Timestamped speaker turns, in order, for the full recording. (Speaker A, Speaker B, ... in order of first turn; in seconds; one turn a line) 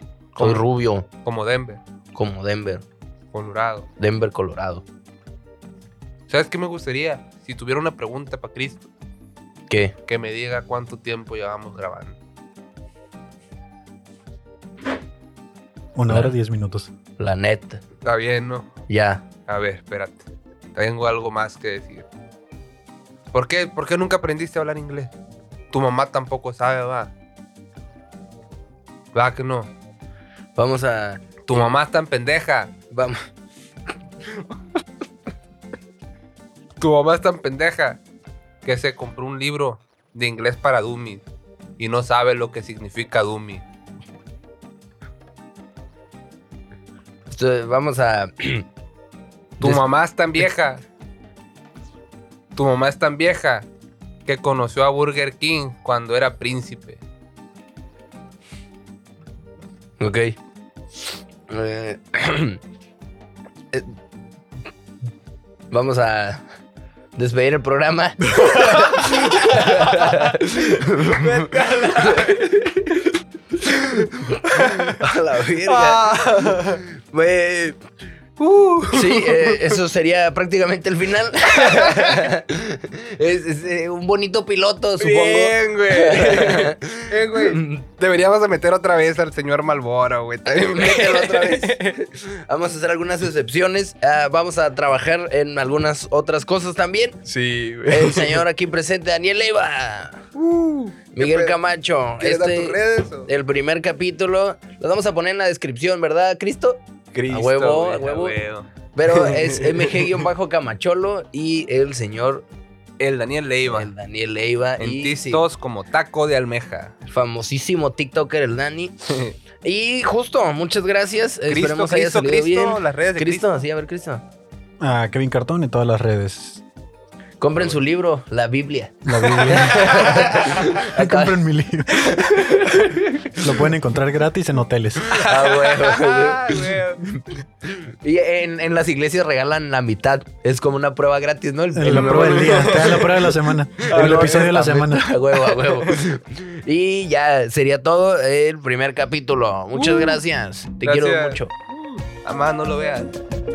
Speaker A: 0.3-0.7
Speaker B: 0.4-1.1
Speaker A: 1.2-1.8
Speaker B: 2.1-2.8
Speaker A: 3.3-3.9
Speaker B: 4.0-4.8
Speaker A: 6.3-8.9
Speaker B: 9.7-9.9
Speaker A: 10.1-12.2
Speaker C: 15.9-16.9
Speaker B: 16.1-16.3
Speaker B: 17.2-17.8
Speaker A: 18.0-18.7
Speaker B: 18.9-19.2
Speaker A: 19.5-22.1
Speaker A: 23.3-25.1
Speaker A: 25.7-27.1
Speaker A: 29.1-29.7
Speaker B: 30.6-31.7
Speaker A: 31.5-32.7
Speaker B: 32.9-33.2
Speaker A: 36.8-38.0
Speaker A: 38.6-41.3
Speaker A: 41.8-43.6
Speaker B: 47.3-48.6
Speaker A: 49.6-50.8
Speaker A: 52.6-53.7
Speaker A: 54.3-57.0
Speaker B: 60.0-60.4
Speaker B: 61.5-62.6
Speaker B: 65.7-66.5
Speaker B: 67.2-73.1
Speaker A: 68.3-70.3
Speaker A: 71.2-72.4
Speaker B: 73.6-77.8
Speaker A: 74.5-75.0
Speaker A: 75.6-76.8
Speaker A: 78.4-79.8
Speaker B: 78.9-87.8
Speaker A: 81.5-82.3
Speaker A: 85.0-91.8
Speaker B: 90.5-97.2
Speaker A: 97.2-98.4
Speaker B: 97.9-100.2
Speaker A: 100.4-101.6
Speaker B: 101.2-108.3
Speaker A: 102.2-103.3
Speaker A: 107.1-110.2
Speaker B: 108.9-112.5
Speaker A: 113.0-113.9
Speaker B: 113.7-115.4
Speaker A: 114.8-117.0
Speaker B: 117.1-119.0
Speaker A: 119.1-119.3
Speaker B: 119.6-124.2
Speaker A: 121.5-123.5
Speaker C: 124.8-126.6
Speaker B: 127.4-133.7
Speaker A: 127.6-127.8
Speaker C: 129.1-132.5
Speaker A: 129.5-130.7
Speaker C: 133.4-135.2
Speaker A: 135.0-137.0
Speaker B: 135.1-143.2
Speaker C: 141.7-145.1
Speaker A: 141.9-143.3
Speaker B: 143.8-151.5
Speaker A: 143.9-144.6
Speaker A: 145.6-146.0
Speaker A: 149.7-150.2
Speaker A: 150.8-153.1